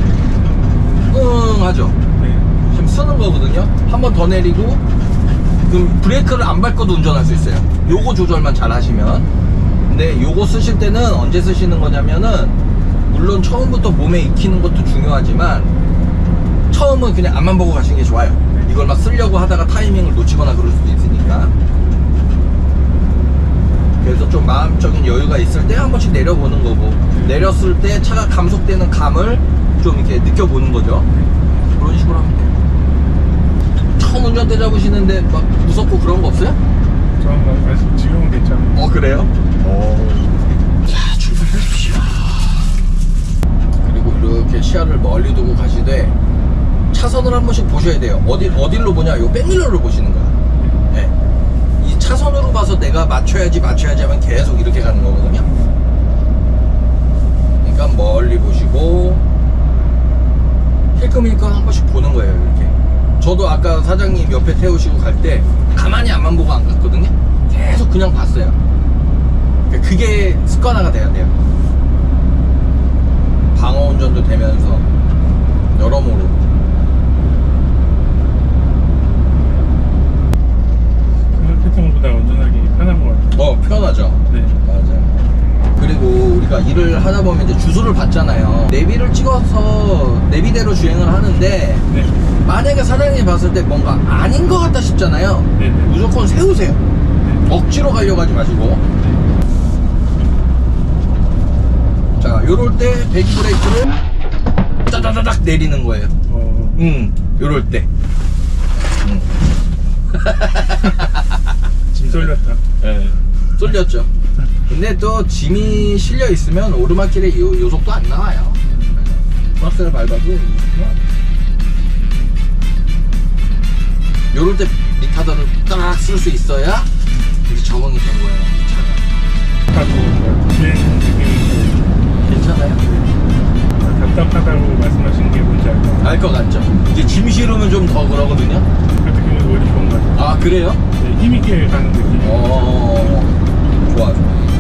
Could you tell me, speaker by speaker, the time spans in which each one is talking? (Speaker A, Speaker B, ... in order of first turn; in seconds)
Speaker A: 1.1-2.0, 2.6-4.8, 5.7-9.3, 9.9-12.6, 13.1-15.7, 16.7-21.5, 24.0-31.1, 31.7-32.5, 34.0-36.6, 38.7-42.8, 43.8-46.2, 46.9-50.3, 51.8-55.5, 57.6-59.2, 61.0-68.6, 69.7-71.3, 73.5-74.9, 75.8-76.4, 83.3-85.2, 85.8-91.9, 92.4-96.8, 97.5-98.8, 102.2-103.9, 104.9-106.1, 106.8-107.9, 109.0-109.3, 110.1-111.2, 112.8-114.1, 114.7-121.0, 124.3-126.9, 127.4-129.0, 132.2-132.8, 136.0-138.7, 140.1-140.8, 142.2-144.2
Speaker B: 2.2-2.5, 7.8-8.1, 27.1-27.4, 37.2-38.8, 55.5-55.8, 81.3-83.3, 84.3-84.6, 91.9-92.2, 95.6-95.9, 106.3-106.8, 111.9-112.6, 118.6-119.0, 129.7-132.0, 132.8-133.1, 133.7-136.1, 139.0-140.2, 141.0-142.9